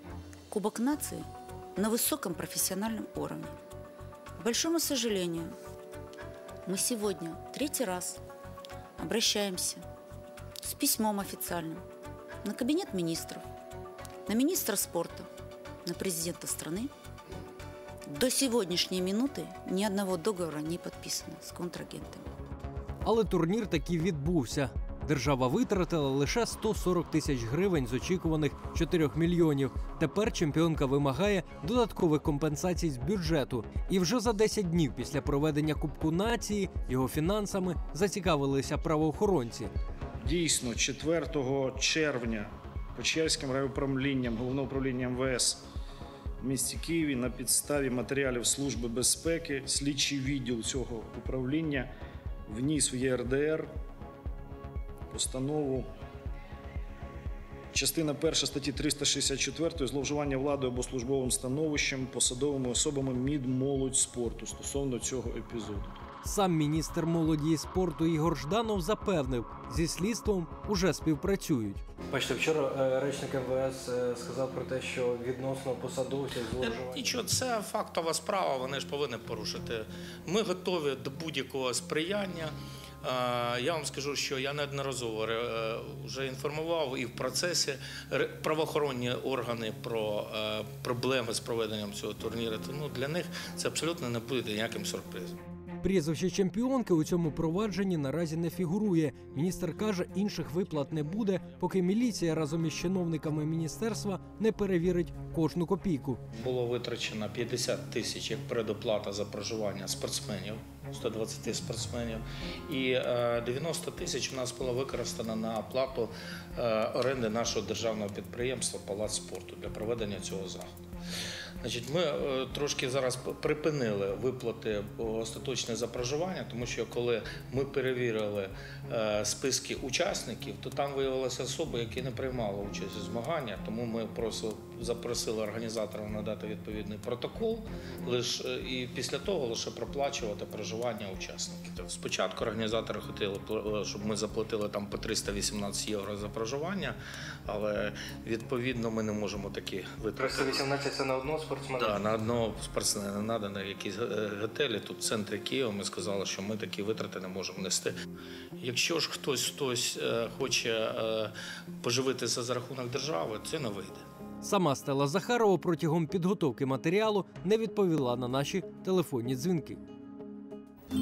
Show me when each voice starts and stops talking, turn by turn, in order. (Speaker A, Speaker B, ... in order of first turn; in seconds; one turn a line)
Speaker A: 0.5-3.6
Speaker A: 4.4-5.5
Speaker A: 6.6-8.2
Speaker A: 9.0-9.8
Speaker A: 10.6-11.8
Speaker A: 12.4-13.4
Speaker A: 14.3-15.3
Speaker A: 15.8-16.9
Speaker A: 18.1-22.2
Speaker B: 23.0-39.7
Speaker C: 40.2-45.6
Speaker C: 46.6-51.9
Speaker C: 52.5-53.7
Speaker C: 55.1-55.9
Speaker C: 57.7-65.9
Speaker B: 66.2-71.8
Speaker D: 72.1-77.1
Speaker E: 76.6-95.4
Speaker B: 95.8-106.2
Speaker E: 106.3-120.7
Speaker E: 121.6-150.7
Speaker D: 150.2-152.0
Speaker E: 151.7-157.9
Speaker E: 158.6-164.0
Speaker B: 164.4-169.8